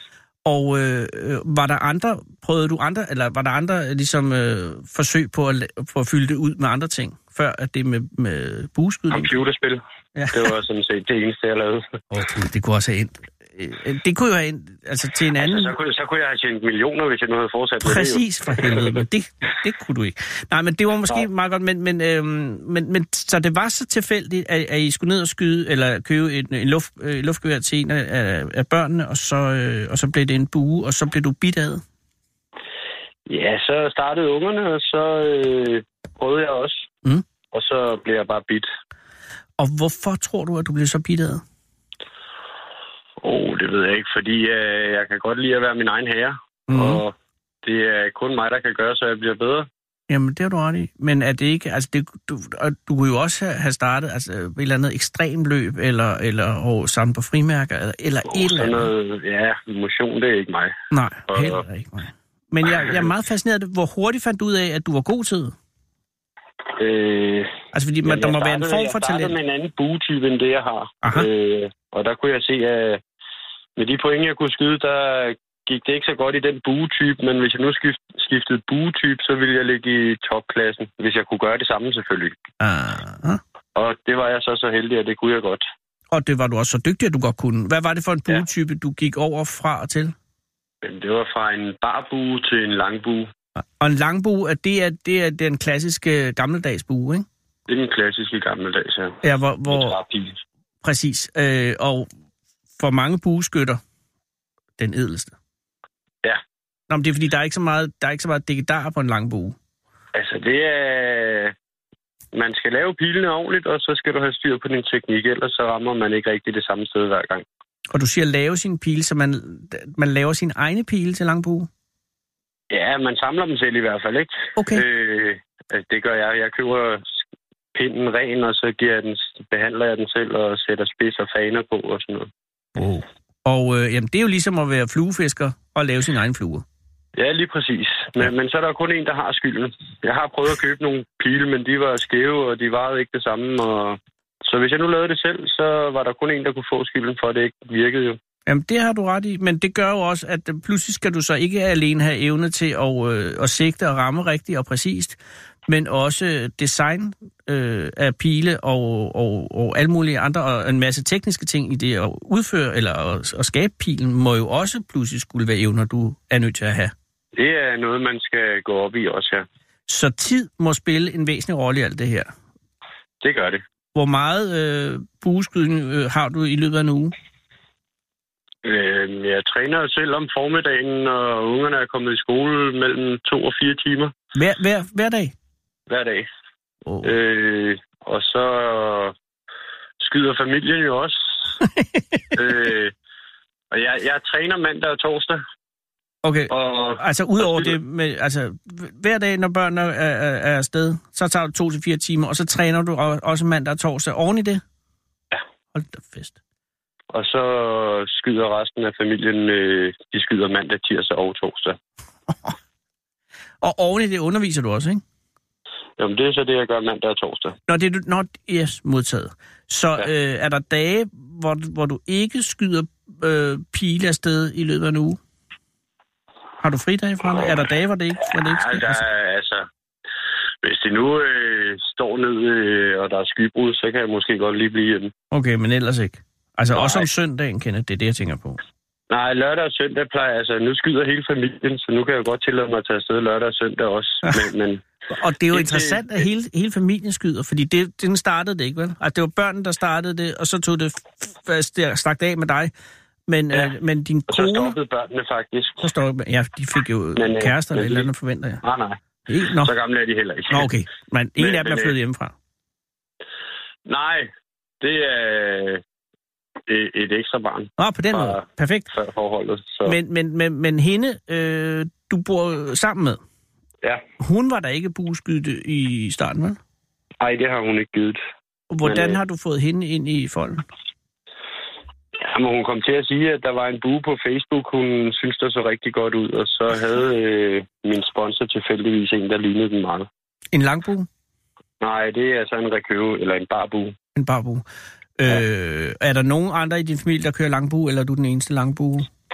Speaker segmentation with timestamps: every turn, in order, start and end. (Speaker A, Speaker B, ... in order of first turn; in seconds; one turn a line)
Speaker A: 0.5-9.3
Speaker B: 9.1-12.0
Speaker A: 10.2-10.5
Speaker A: 12.1-15.7
Speaker B: 15.4-18.8
Speaker A: 17.8-31.8
Speaker B: 33.3-36.9
Speaker B: 37.5-38.7
Speaker A: 39.6-41.4
Speaker B: 43.2-49.7
Speaker A: 46.7-47.0
Speaker A: 50.1-58.9
Speaker B: 58.3-60.8
Speaker A: 60.9-65.5
Speaker B: 61.3-61.6
Speaker B: 66.8-67.5
Speaker A: 67.7-69.4
Speaker B: 68.0-73.0
Speaker A: 71.0-71.3
Speaker B: 73.8-82.4
Speaker A: 82.6-83.4
Speaker B: 83.8-85.6
Speaker A: 86.1-90.1
Speaker B: 90.8-93.3
Speaker A: 93.6-97.3
Speaker B: 97.7-99.2
Speaker A: 99.2-100.0
Speaker B: 99.7-100.4
Speaker A: 100.8-102.1
Speaker A: 102.8-103.8
Speaker A: 104.8-105.3
Speaker A: 106.9-109.6
Speaker B: 110.1-111.5
Speaker B: 112.3-117.5
Speaker A: 117.9-121.7
Speaker B: 122.7-127.1
Speaker A: 124.6-124.8
Speaker B: 127.7-132.3
Speaker A: 132.8-136.6
Speaker B: 137.2-148.2
Speaker A: 148.5-166.9
Speaker B: 167.4-169.4
Speaker A: 169.9-172.3
Speaker B: 173.2-173.6
Speaker A: 173.9-177.1
Speaker B: 178.6-184.1
Speaker A: 184.3-185.3
Speaker B: 185.9-186.3
Speaker A: 186.9-187.1
Speaker B: 187.0-189.1
Speaker B: 190.0-191.5
Speaker A: 191.8-192.2
Speaker B: 192.3-192.9
Speaker B: 193.7-195.4
Speaker A: 196.2-204.6
Speaker B: 196.5-197.8
Speaker A: 205.7-206.4
Speaker B: 207.1-211.8
Speaker A: 212.3-212.5
Speaker A: 213.6-215.0
Speaker B: 216.0-217.6
Speaker A: 217.7-225.2
Speaker A: 226.6-229.0
Speaker B: 228.4-229.7
Speaker B: 230.6-235.1
Speaker A: 235.3-238.6
Speaker B: 236.7-237.0
Speaker B: 239.1-244.8
Speaker A: 245.1-252.7
Speaker B: 245.5-246.0
Speaker A: 253.3-254.8
Speaker B: 254.3-255.8
Speaker A: 255.8-258.6
Speaker B: 257.2-258.1
Speaker B: 258.6-259.0
Speaker A: 259.3-259.7
Speaker B: 259.6-260.7
Speaker A: 260.5-262.4
Speaker B: 261.4-261.9
Speaker B: 263.9-264.3
Speaker B: 264.8-265.8
Speaker B: 266.7-270.0
Speaker A: 267.8-268.9
Speaker A: 269.9-273.2
Speaker A: 274.2-276.6
Speaker B: 277.2-278.2
Speaker A: 278.7-280.6
Speaker B: 278.8-279.2
Speaker B: 282.2-290.1
Speaker A: 290.5-291.1
Speaker B: 291.8-293.9
Speaker A: 294.1-294.6
Speaker A: 295.2-299.1